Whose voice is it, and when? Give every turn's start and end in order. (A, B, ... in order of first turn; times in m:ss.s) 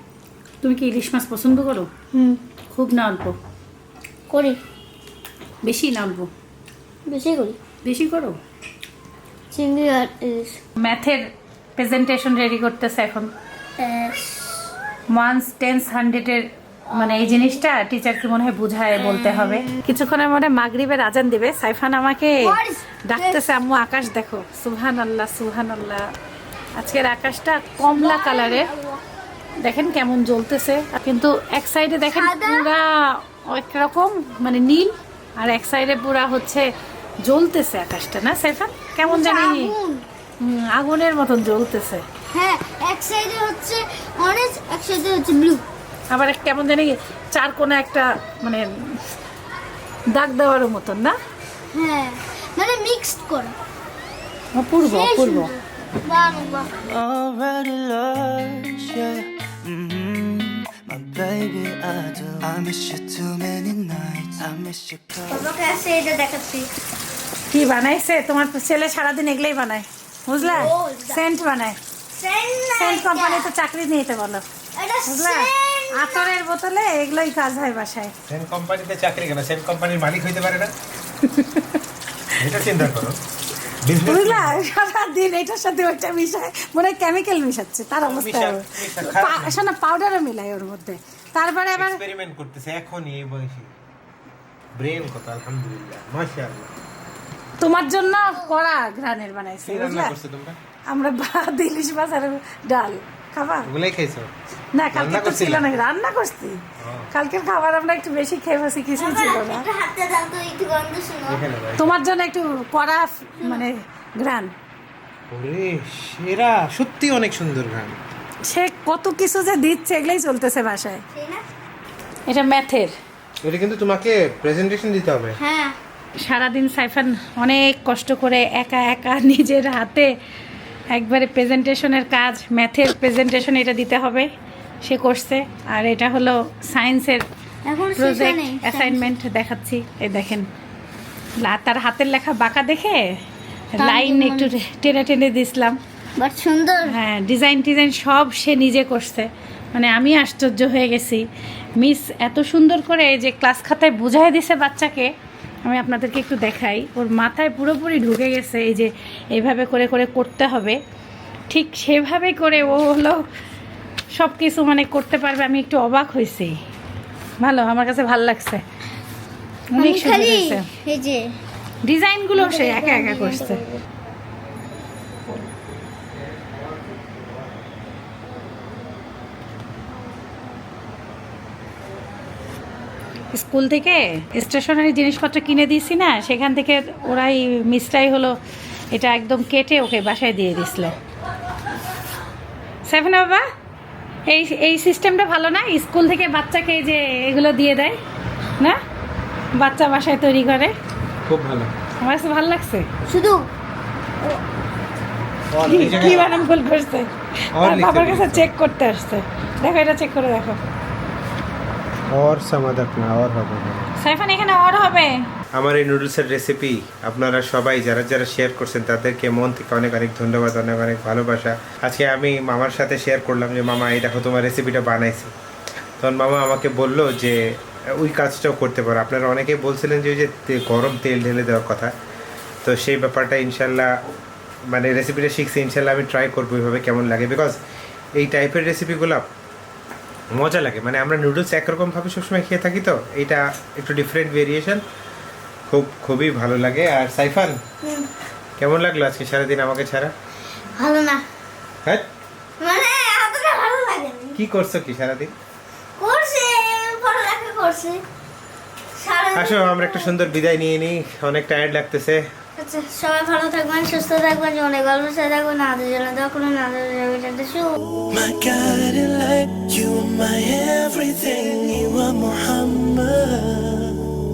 0:00.6-0:01.9 A
0:02.1-0:02.4 B
0:02.7-0:03.4 A
0:04.3-0:04.6 B
0:05.6-0:06.3 A
0:07.1-0:07.6 B
0:07.8-0:08.4 A
0:09.5-0:10.6 B
0:10.8-0:13.3 A
0:13.8-0:14.7 B
0:15.1-0:22.6 A
0:16.9-0:17.6 B
0:19.0-0:19.8 B
0:22.4-0:23.5 B
0:23.1-0:26.1 A
0:26.8-0:28.7 A
0:27.9-0:29.0 B
0:29.6-0:36.7 A
0:32.1-0:32.7 B
0:37.2-0:39.7 A
0:39.0-0:40.0 B
0:40.4-0:42.0 A
0:42.3-0:45.6 B
0:46.1-0:49.0 A
0:50.1-0:51.2 A
0:51.7-0:53.6 B
0:54.5-0:55.5 A
0:54.8-0:56.7 B
0:56.8-1:05.5 C
1:05.3-1:06.7 B
1:07.5-1:11.8 A
1:10.4-1:11.2 B
1:12.2-1:13.5 B
1:12.8-1:14.4 A
1:14.8-1:16.4 B
1:15.1-1:18.1 A
1:18.3-1:20.7 D
1:21.2-1:21.8 A
1:22.4-1:23.2 D
1:23.8-1:24.6 D
1:24.0-1:32.0 A
1:28.0-1:29.7 D
1:31.7-1:33.7 D
1:34.8-1:36.7 D
1:37.6-1:40.2 A
1:39.7-1:40.6 D
1:40.9-1:43.7 A
1:43.7-1:44.3 D
1:44.7-1:49.7 A
1:44.9-1:45.7 D
1:46.8-1:47.1 D
1:49.0-1:51.4 B
1:51.3-1:52.0 D
1:51.8-1:54.5 A
1:53.4-1:53.7 B
1:55.3-1:58.0 D
1:58.4-2:01.0 A
2:01.1-2:01.4 B
2:02.3-2:02.9 A
2:03.4-2:05.4 D
2:05.4-2:05.8 B
2:06.2-2:10.1 A
2:10.9-2:14.3 A
2:14.8-2:17.2 A
2:17.7-2:19.0 B
2:18.0-2:20.5 A
2:21.4-2:23.2 A
2:23.7-2:25.8 A
2:23.8-2:24.5 B
2:26.2-2:26.9 B
2:26.9-2:31.2 A
2:31.8-2:35.1 A
2:35.6-2:40.8 A
2:41.5-2:43.3 A
2:44.1-2:46.6 A
2:47.4-2:48.6 A
2:49.7-2:50.6 A
2:49.8-2:51.3 B
2:51.8-2:53.6 A
2:52.4-2:53.8 B
2:56.7-2:57.1 D
3:03.3-3:08.4 A
3:08.9-3:11.0 A
3:12.8-3:13.4 A
3:14.3-3:18.0 A
3:19.6-3:20.7 A
3:21.3-3:21.7 D
3:22.0-3:22.9 A
3:23.1-3:23.5 B
3:25.5-3:26.3 D
3:25.6-3:30.6 A
3:27.6-3:28.5 D
3:32.1-3:33.9 D
3:34.0-3:35.2 A
3:35.6-3:45.3 D
3:46.0-3:51.9 D
3:52.6-3:53.9 D
3:54.7-3:57.6 D
3:58.2-3:59.3 D
4:00.3-4:04.8 D
4:05.7-4:07.6 D
4:07.8-4:08.1 B
4:08.6-4:10.1 D
4:10.8-4:11.2 B
4:12.6-4:14.4 B
4:14.4-4:15.3 D
4:16.0-4:18.0 B
4:19.0-4:20.2 B
4:19.4-4:22.2 D
4:22.6-4:27.8 B
4:28.1-4:34.0 C